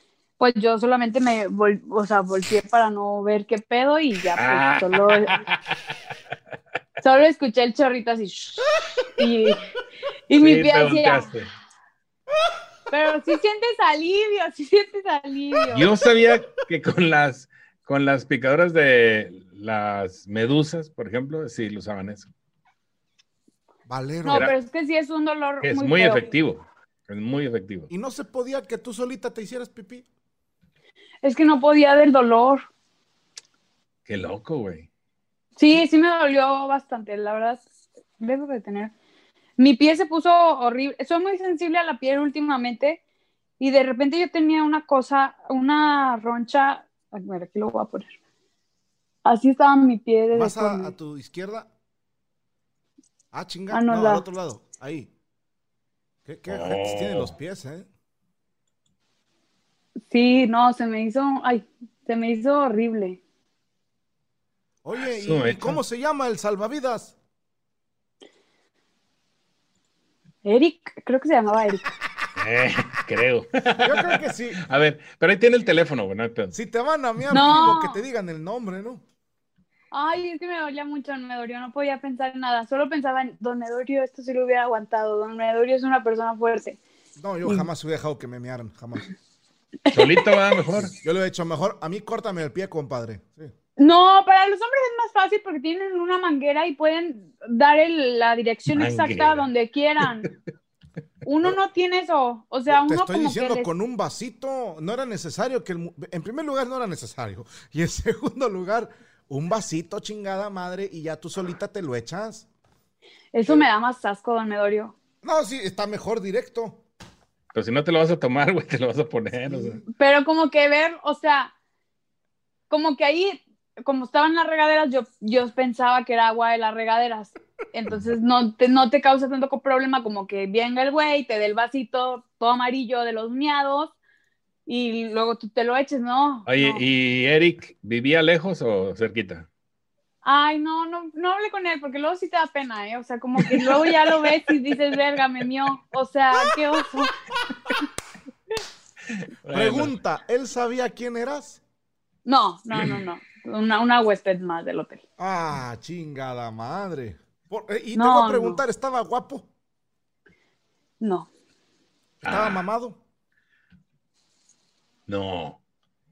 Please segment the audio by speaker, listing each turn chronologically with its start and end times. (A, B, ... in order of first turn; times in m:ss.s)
0:00.4-0:05.4 A
0:04.4-0:05.6 B
0:07.0-0:09.6 A
0:10.3-0:11.3 A
0:10.4-0:11.5 B
0:12.9-0:15.9 A
0:15.7-0:22.3 B
0:23.9-0:24.5 C
0:24.2-0:26.3 A
0:25.6-0:27.9 B
0:27.9-0:30.1 C
0:31.2-0:32.6 A
0:34.1-0:34.9 B
0:35.6-0:37.6 A
0:38.2-0:38.9 A
0:39.6-0:43.0 A
0:43.6-0:48.1 A
0:49.2-0:50.9 A
0:50.3-0:51.7 C
0:53.3-0:55.1 C
0:53.7-0:54.2 A
0:56.2-0:57.9 C
0:56.5-0:57.3 B
1:00.1-1:03.2 A
1:04.8-1:07.2 C
1:05.0-1:05.8 B
1:10.4-1:11.9 A
1:12.4-1:16.6 B
1:13.8-1:14.6 C
1:16.5-1:19.0 C
1:17.3-1:18.0 A
1:19.9-1:26.8 A
1:27.2-1:29.1 C
1:29.9-1:30.9 B
1:30.8-1:33.5 C
1:33.8-1:40.3 A
1:38.7-1:39.5 B
1:41.2-1:43.7 A
1:42.7-1:52.5 C
1:53.3-1:54.9 A
1:55.2-1:56.8 C
1:57.5-1:59.8 B
1:59.5-1:59.8 C
1:59.9-2:01.5 A
2:02.7-2:13.9 A
2:14.7-2:16.8 A
2:16.5-2:19.5 B
2:20.2-2:27.1 A
2:23.4-2:23.9 B
2:29.4-2:29.9 B
2:29.5-2:31.6 C
2:32.2-2:35.0 A
2:35.2-2:39.5 C
2:38.0-2:38.6 A
2:41.0-2:41.3 A
2:42.2-2:42.6 B
2:42.3-2:43.0 C
2:45.1-2:45.6 B